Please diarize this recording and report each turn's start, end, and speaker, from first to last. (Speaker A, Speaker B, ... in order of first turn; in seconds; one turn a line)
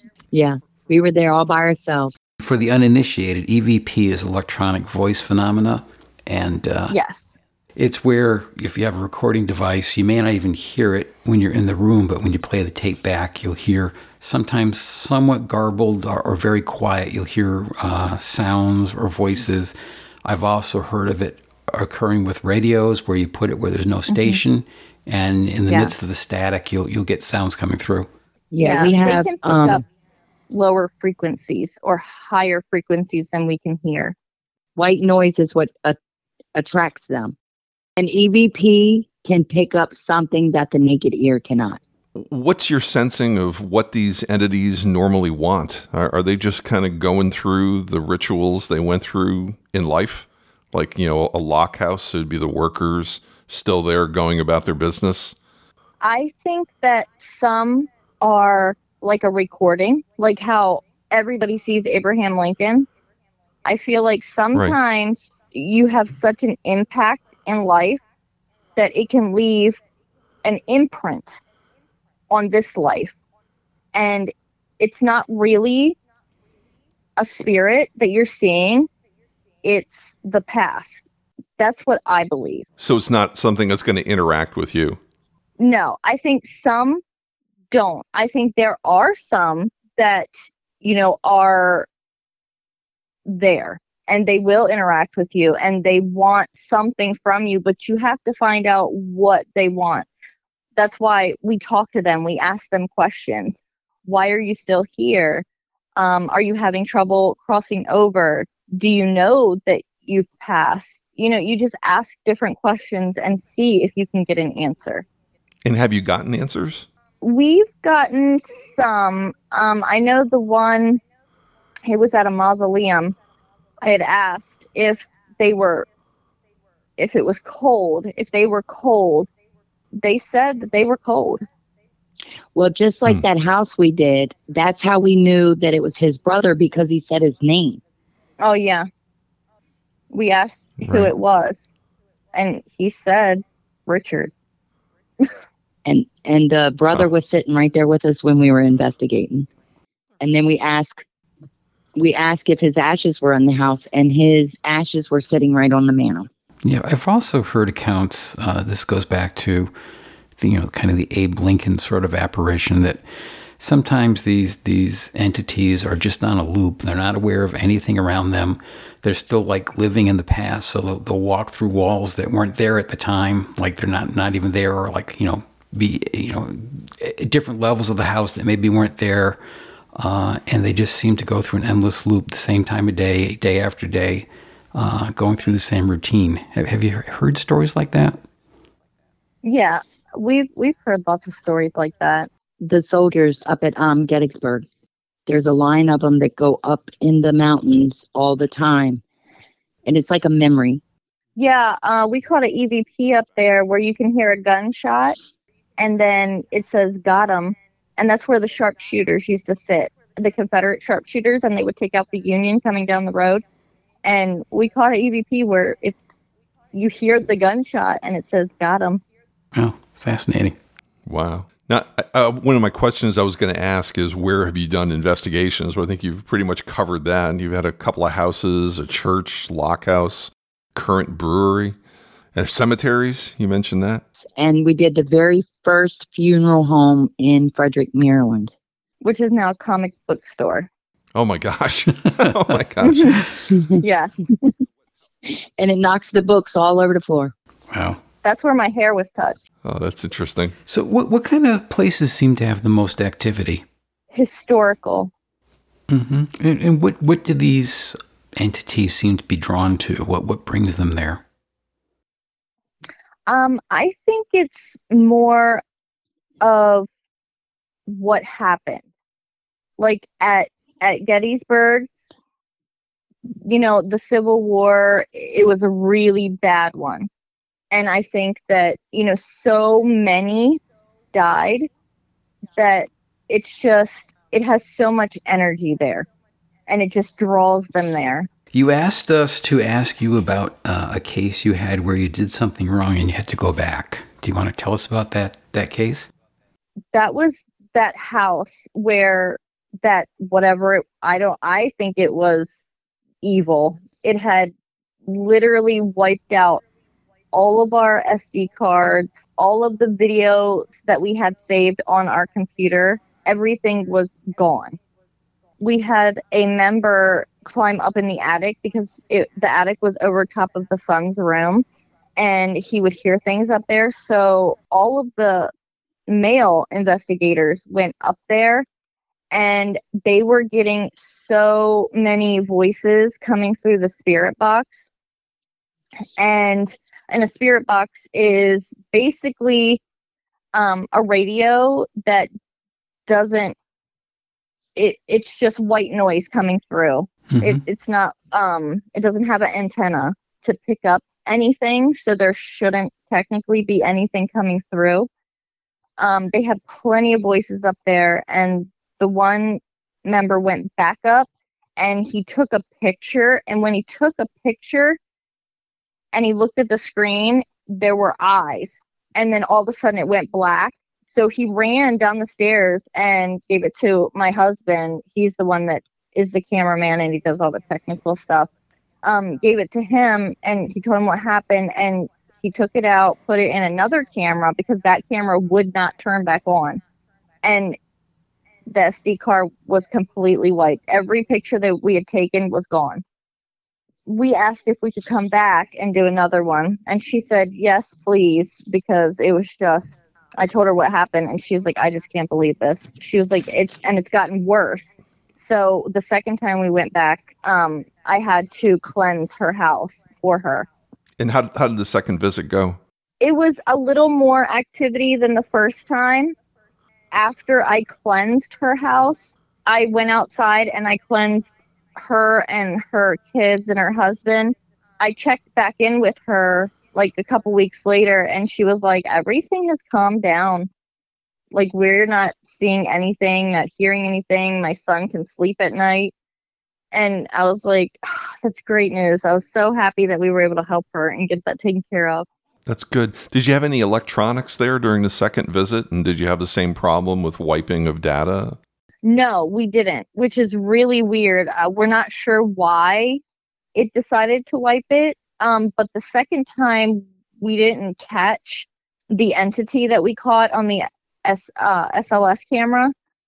Speaker A: 0.3-2.1
Speaker B: 2.4-7.0
Speaker C: 6.9-7.4
Speaker B: 7.8-28.1
Speaker A: 25.7-25.9
Speaker A: 28.5-29.8
Speaker C: 28.6-29.8
Speaker C: 30.5-34.1
Speaker A: 34.8-36.0
Speaker A: 36.5-37.4
Speaker A: 38.0-41.8
Speaker D: 42.1-55.4
Speaker C: 56.0-62.9
Speaker C: 63.6-68.0
Speaker C: 68.8-69.8
Speaker C: 70.4-71.4
Speaker C: 72.3-73.1
Speaker C: 73.9-76.0
Speaker C: 77.2-78.9
Speaker C: 79.6-82.7
Speaker D: 82.8-85.0
Speaker C: 85.6-87.0
Speaker C: 87.7-90.3
Speaker C: 90.8-91.9
Speaker C: 93.2-100.1
Speaker C: 100.8-105.4
Speaker C: 106.0-115.0
Speaker D: 115.6-116.9
Speaker C: 117.2-121.0
Speaker C: 121.9-123.2
Speaker C: 123.8-125.9
Speaker C: 127.0-129.3
Speaker C: 130.0-131.4
Speaker A: 132.5-137.8
Speaker C: 138.4-138.8
Speaker C: 140.1-141.6
Speaker D: 140.8-141.1
Speaker C: 142.3-144.3
Speaker A: 145.8-149.5
Speaker A: 150.2-151.0
Speaker A: 151.9-156.3
Speaker B: 156.6-159.7
Speaker B: 160.4-163.0
Speaker B: 163.6-179.4
Speaker B: 179.9-188.2
Speaker C: 189.4-192.3
Speaker A: 192.6-194.7
Speaker A: 195.3-199.0
Speaker A: 199.8-200.8
Speaker C: 201.3-205.2
Speaker C: 205.8-213.4
Speaker C: 214.0-216.2
Speaker C: 216.7-219.0
Speaker B: 219.5-220.6
Speaker D: 221.1-231.8
Speaker D: 232.3-234.0
Speaker A: 234.4-238.5
Speaker C: 239.0-240.7
Speaker D: 241.1-243.4
Speaker C: 242.8-243.2
Speaker A: 243.5-243.8
Speaker C: 243.8-244.1
Speaker A: 245.3-247.3
Speaker B: 247.7-248.0
Speaker C: 248.2-249.4
Speaker D: 249.6-250.5
Speaker B: 250.7-253.6
Speaker C: 254.1-255.1
Speaker B: 255.9-261.2
Speaker C: 263.3-265.6
Speaker C: 266.4-266.9
Speaker C: 267.9-268.8
Speaker C: 269.8-271.9
Speaker C: 273.4-277.1
Speaker C: 277.7-280.6
Speaker C: 281.1-281.7
Speaker C: 282.6-286.1
Speaker C: 286.7-288.3
Speaker B: 288.5-296.1
Speaker C: 296.9-302.6
Speaker C: 303.2-304.5
Speaker C: 305.1-306.6
Speaker C: 307.3-314.8
Speaker C: 315.6-321.6
Speaker C: 322.2-325.5
Speaker C: 326.1-328.7
Speaker C: 329.3-334.9
Speaker C: 336.2-339.8
Speaker C: 340.5-342.3
Speaker C: 343.1-343.6
Speaker C: 344.8-355.1
Speaker B: 347.3-347.6
Speaker C: 356.0-365.0
Speaker C: 366.1-378.5
Speaker C: 379.0-386.8
Speaker C: 387.4-387.8
Speaker C: 388.7-393.0
Speaker C: 394.1-410.7
Speaker D: 411.2-412.8
Speaker C: 413.2-416.3
Speaker C: 417.1-430.7
Speaker C: 431.5-436.1
Speaker C: 436.9-442.3
Speaker D: 442.7-448.6
Speaker C: 449.0-453.2
Speaker C: 453.7-462.9